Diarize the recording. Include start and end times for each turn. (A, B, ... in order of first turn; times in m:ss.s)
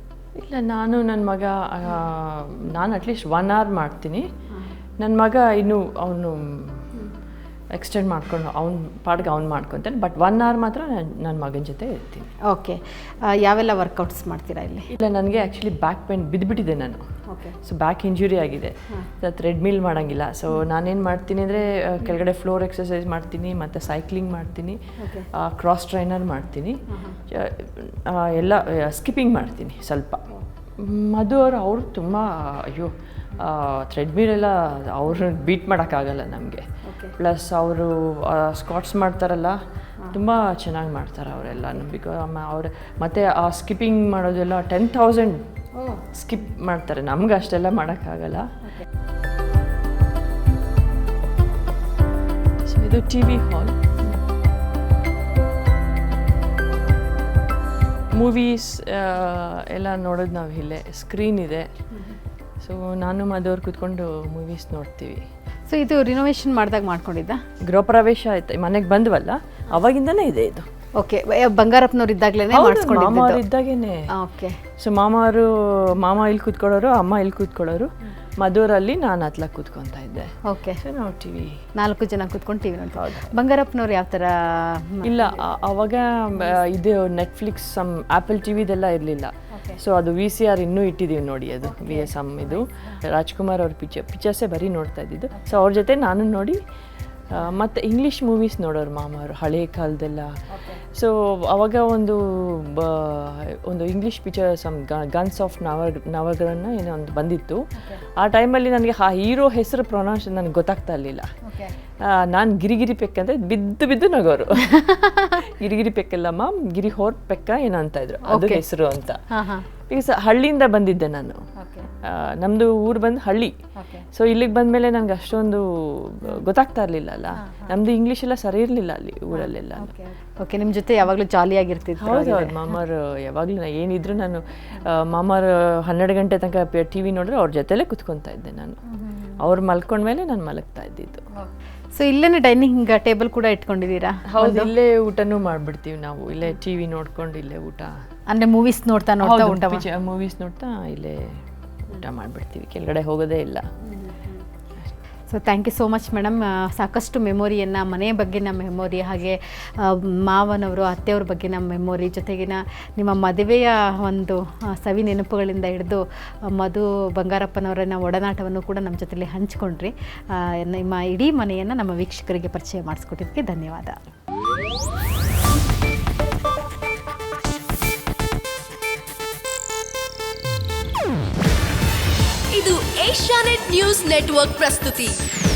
0:00.4-0:04.3 A
0:05.0-0:06.9 A
0:07.7-0:12.3 A
0:12.4-0:14.9 B
0:14.9-0:17.0 A
0:17.3-0:17.6 B
0:17.6-0:30.2 A
0:25.0-0:25.3 B
0:26.9-0:27.2 B
0:30.8-0:36.7 A
0:36.8-0:37.1 B
0:37.2-0:45.4 A
0:45.8-0:46.1 B
0:46.1-0:48.5 A
0:52.7-0:53.8 A
0:58.1-1:01.7 A
1:02.6-1:05.2 A
1:05.7-1:07.4 B
1:07.7-1:10.7 A
1:11.0-1:13.4 B
1:12.5-1:14.1 A
1:14.1-1:14.6 B
1:14.8-1:21.6 A
1:20.4-1:20.8 B
1:21.8-1:25.4 B
1:23.0-1:23.3 A
1:25.0-1:36.6 A
1:29.5-1:29.8 B
1:31.7-1:33.0 B
1:37.3-1:51.3 A
1:40.5-1:40.8 B
1:51.4-1:51.8 B
1:52.0-1:59.3 A
1:54.8-1:55.3 B
1:58.2-1:58.6 B
1:59.3-1:59.7 B
1:59.9-2:01.5 A
2:01.6-2:01.9 B
2:02.0-2:03.6 A
2:03.8-2:04.1 B
2:04.1-2:09.9 A
2:07.4-2:07.7 B
2:09.3-2:12.6 B
2:12.0-2:18.8 A
2:18.9-2:19.4 B
2:19.4-2:21.2 A
2:21.4-2:24.7 B
2:24.3-2:28.0 A
2:28.3-2:29.8 B
2:29.2-2:33.7 A
2:33.8-2:34.4 B
2:35.3-2:54.0 B
3:02.5-3:05.2 C